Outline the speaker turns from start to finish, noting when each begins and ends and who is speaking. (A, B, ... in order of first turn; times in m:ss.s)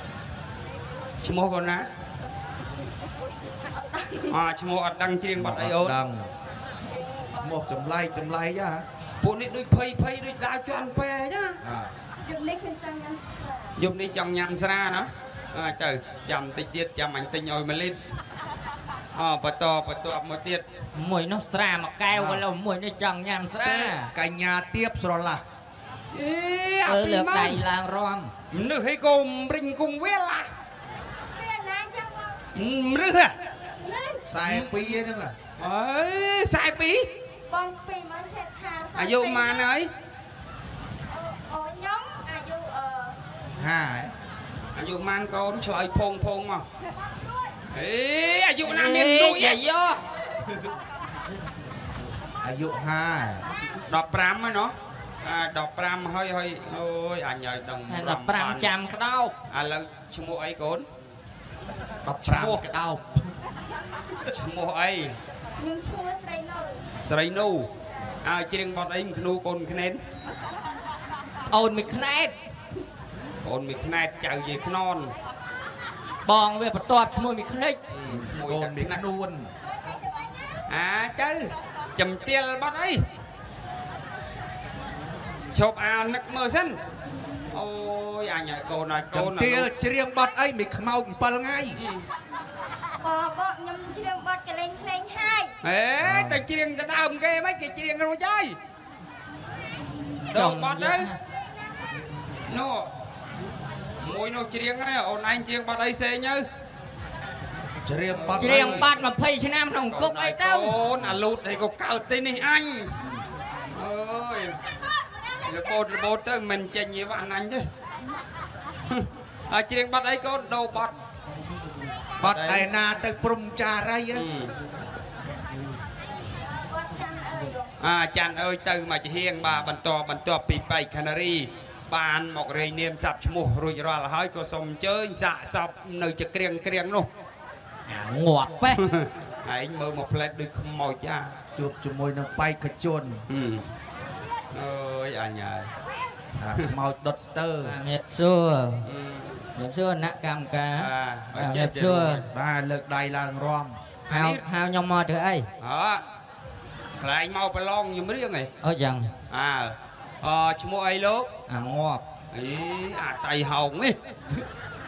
0:01.2-0:01.9 A
0:03.8-0:04.3 B
0:04.3-0:06.0 A
0:05.4-0:06.3 C
0:07.4-0:08.8 C
0:09.2-0:11.6 A
0:11.6-0:11.9 C
0:12.2-0:13.8 B
0:13.8-0:18.0 A
0:19.1-0:20.6 A
0:20.9-0:24.1 D
0:22.1-0:22.4 C
0:23.9-0:25.4 C
0:26.1-0:27.6 A
0:26.8-0:28.3 D
0:28.5-0:30.5 A
0:31.2-0:32.4 B
0:32.5-0:33.3 A
0:33.8-0:34.3 B
0:34.2-0:35.4 C
0:34.4-0:34.7 A
0:35.6-0:37.1 A
0:37.5-0:39.7 B
0:39.0-0:39.9 A
0:41.1-0:43.2 B
0:43.6-0:44.1 C
0:44.7-0:46.6 A
0:47.2-0:47.5 B
0:47.7-0:49.6 A
0:48.6-0:50.0 D
0:52.4-0:53.5 C
0:53.9-0:58.7 A
0:57.9-0:59.3 D
0:59.5-1:00.9 A
1:02.0-1:03.3 C
1:02.2-1:02.6 A
1:04.3-1:05.2 A
1:05.6-1:06.8 B
1:07.0-1:07.7 A
1:08.2-1:10.0 A
1:11.5-1:12.3 D
1:13.4-1:15.1 A
1:16.2-1:17.8 D
1:17.9-1:19.0 A
1:18.1-1:19.5 C
1:19.7-1:20.6 B
1:20.7-1:23.0 A
1:25.5-1:26.8 A
1:27.5-1:29.7 A
1:29.1-1:31.8 C
1:31.8-1:32.0 A
1:33.0-1:35.5 B
1:35.6-1:38.6 A
1:36.0-1:36.4 C
1:40.3-1:41.1 A
1:40.3-1:41.2 D
1:42.5-1:42.9 A
1:44.0-1:46.4 A
1:47.8-1:48.9 C
1:48.1-1:48.9 A
1:48.4-1:50.7 D
1:49.9-1:53.0 A
1:53.0-1:53.2 C
1:53.7-1:54.6 A
1:55.4-1:57.7 A
1:58.9-2:01.0 A
2:02.2-2:04.2 C
2:02.2-2:02.6 A
2:04.1-2:04.5 A
2:06.5-2:07.7 B
2:07.8-2:17.1 A
2:17.9-2:18.8 D
2:18.8-2:21.3 A
2:21.6-2:23.2 C
2:23.3-2:23.6 A
2:24.5-2:25.7 A
2:26.4-2:27.8 C
2:27.6-2:28.8 D
2:28.8-2:29.4 A
2:29.6-2:32.2 D
2:30.8-2:32.2 A
2:32.3-2:33.8 C
2:34.1-2:34.4 A
2:34.1-2:35.5 D
2:35.6-2:36.0 A
2:37.0-2:38.5 A
2:38.6-2:39.1 D
2:39.3-2:41.3 A
2:41.5-2:42.0 D
2:42.3-2:44.0 A